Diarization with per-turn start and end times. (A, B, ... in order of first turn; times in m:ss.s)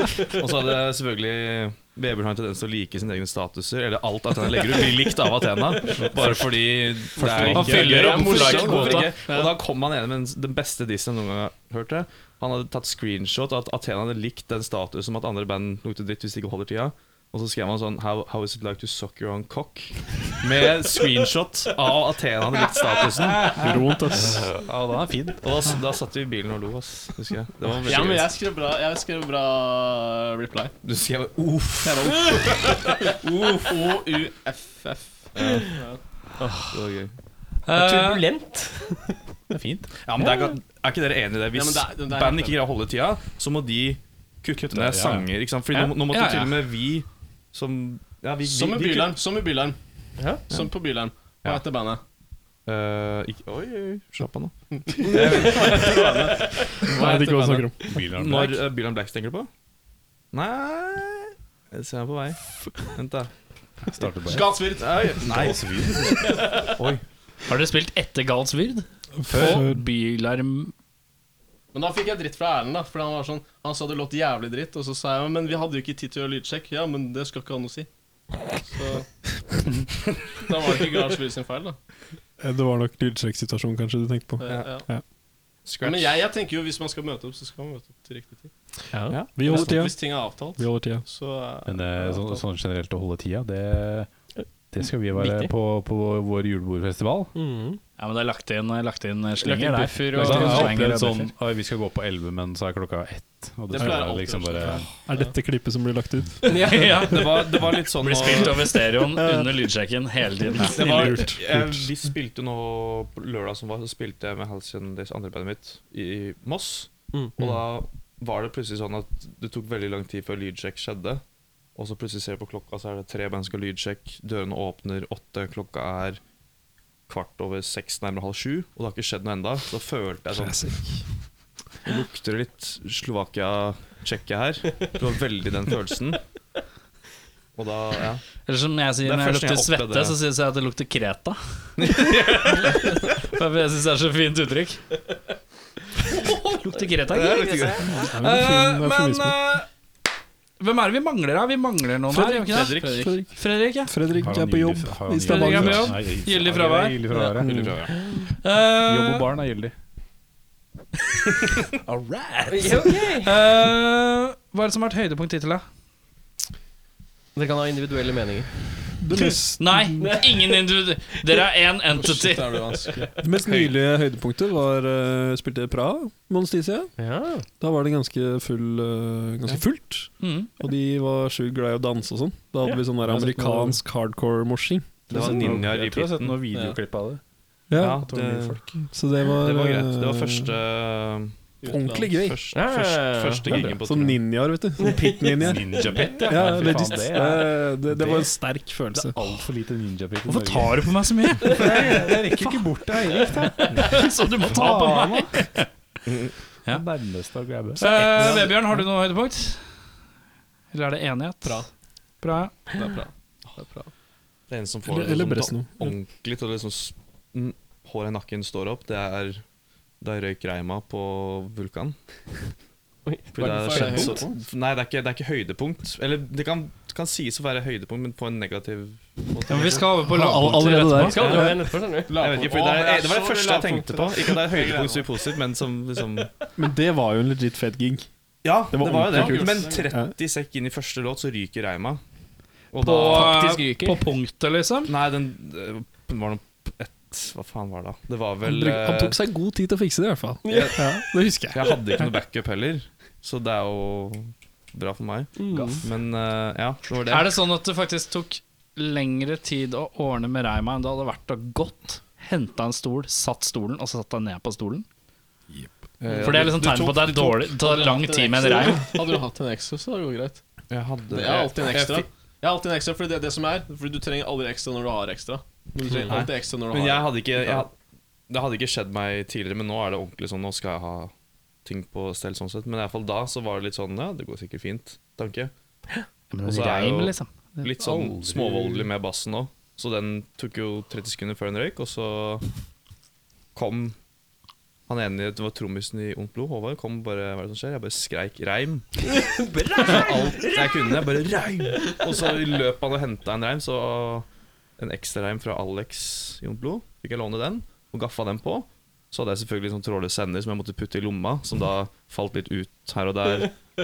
0:00.3-0:23.7 A
0:07.2-0:07.7 B
0:07.2-0:09.5 C
0:07.4-0:09.1 D
0:23.5-0:24.5 E
0:24.5-0:25.5 B
0:25.4-0:28.3 A
0:27.8-0:30.7 C
0:30.8-0:32.7 A
0:31.8-0:36.0 C
0:35.3-0:35.7 A
0:36.4-0:36.6 F
0:36.7-0:37.1 A
0:37.6-0:38.2 D
0:37.7-0:39.0 F
0:39.5-0:39.9 B
0:40.0-0:49.2 A
0:40.2-0:40.5 F
0:41.5-0:42.6 C
0:44.6-0:45.3 B
0:45.7-0:46.6 D
0:48.4-0:49.8 C
0:50.4-0:52.0 C
0:52.6-0:56.2 A
0:54.7-0:57.5 C
0:56.9-0:59.5 A
0:56.9-0:58.0 E
0:57.9-0:58.6 B
1:00.3-1:03.3 A
1:03.8-1:06.4 B
1:04.2-1:06.6 C
1:04.8-1:06.1 A
1:06.8-1:07.0 A
1:07.5-1:10.7 D
1:09.2-1:09.8 E
1:11.7-1:17.9 C
1:18.6-1:19.1 C
1:20.3-1:21.8 C
1:22.4-1:25.0 E
1:24.4-1:24.9 C
1:24.4-1:24.7 A
1:25.6-1:26.2 A
1:25.8-1:28.5 C
1:28.9-1:29.2 F
1:29.1-1:29.7 A
1:29.3-1:31.0 E
1:29.4-1:32.4 C
1:31.6-1:34.1 B
1:34.4-1:35.5 F
1:34.7-1:37.3 B
1:37.3-1:37.8 F
1:38.0-1:41.3 D
1:39.4-1:40.8 F
1:40.1-1:44.9 B
1:43.7-1:45.3 C
1:43.8-1:44.1 E
1:45.0-1:47.0 E
1:46.4-1:47.0 F
1:46.5-1:51.2 D
1:47.0-1:48.7 A
1:50.5-1:51.9 E
1:50.7-2:01.2 A
2:01.7-2:06.2 A
2:07.1-2:10.8 A
2:10.3-2:11.1 E
2:11.8-2:16.2 A
2:17.5-2:18.2 A
2:18.4-2:24.8 D
2:19.0-2:20.2 A
2:21.8-2:22.9 A
2:26.1-2:29.7 D
2:27.1-2:28.1 A
2:27.9-2:29.4 E
2:30.6-2:32.8 D
2:32.5-2:33.1 C
2:32.5-2:32.8 F
2:32.9-2:33.3 E
2:33.3-2:33.9 D
2:33.8-2:36.0 E
2:34.2-2:37.7 B
2:35.2-2:37.1 D
2:37.4-2:37.7 E
2:37.4-2:37.9 A
2:38.1-2:39.3 D
2:38.8-2:39.7 B
2:41.8-2:45.6 D
2:42.5-2:43.3 F
2:47.4-2:48.7 F
2:49.0-2:50.2 E
2:49.6-2:52.9 D
2:50.0-2:50.6 F
2:52.0-2:53.2 C
2:53.2-2:56.9 E
2:57.0-2:57.4 F
2:57.6-3:05.6 E
3:00.2-3:00.5 D
3:05.1-3:06.7 A
3:05.1-3:07.2 B
3:07.7-3:08.1 E
3:07.8-3:08.7 A
3:07.8-3:08.6 B
3:08.7-3:10.5 E
3:09.4-3:11.4 A
3:11.6-3:12.1 C
3:11.7-3:12.4 E
3:12.1-3:14.3 A
3:12.5-3:13.6 F
3:13.5-3:19.4 E
3:14.8-3:15.3 F
3:15.4-3:18.3 B
3:18.9-3:20.9 B
3:20.2-3:22.6 D
3:21.4-3:23.9 B
3:21.5-3:22.2 F
3:23.7-3:25.5 D
3:24.5-3:25.2 B
3:26.0-3:26.3 A
3:26.7-3:27.8 B
3:27.8-3:29.6 D
3:28.2-3:28.5 A
3:30.7-3:31.6 D
3:32.2-3:32.8 D
3:32.7-3:33.9 C
3:34.5-3:39.4 A
3:34.9-3:35.9 E
3:40.0-3:42.0 A
3:43.3-3:49.9 A
3:43.4-3:44.4 C
3:49.5-3:51.4 D
3:49.5-3:51.6 E
3:51.0-3:52.1 F
3:51.1-3:51.5 A
3:52.0-3:55.3 C
3:52.1-3:56.3 A
3:56.6-3:58.0 E
3:58.4-4:02.0 A
3:58.7-4:00.2 E
3:59.1-3:59.8 C
4:02.7-4:03.4 A
4:02.8-4:04.9 D
4:03.0-4:04.0 F
4:04.8-4:09.2 A
4:08.4-4:12.1 E
4:10.4-4:10.7 F
4:10.4-4:10.9 A
4:11.4-4:17.4 A
4:15.4-4:15.8 F
4:17.0-4:24.8 D
4:26.0-4:27.5 A
4:26.2-4:29.0 D
4:27.6-4:30.4 C
4:30.7-4:32.0 A
4:31.1-4:37.7 C
4:36.1-4:37.7 A
4:38.3-4:41.1 A
4:41.6-4:45.5 A
4:46.3-4:48.1 D
4:46.4-4:52.4 A
4:47.9-4:48.6 B
4:53.5-4:54.0 A
4:54.9-4:59.0 A
4:59.3-5:00.6 F
4:59.8-5:04.3 A
5:04.8-5:13.6 A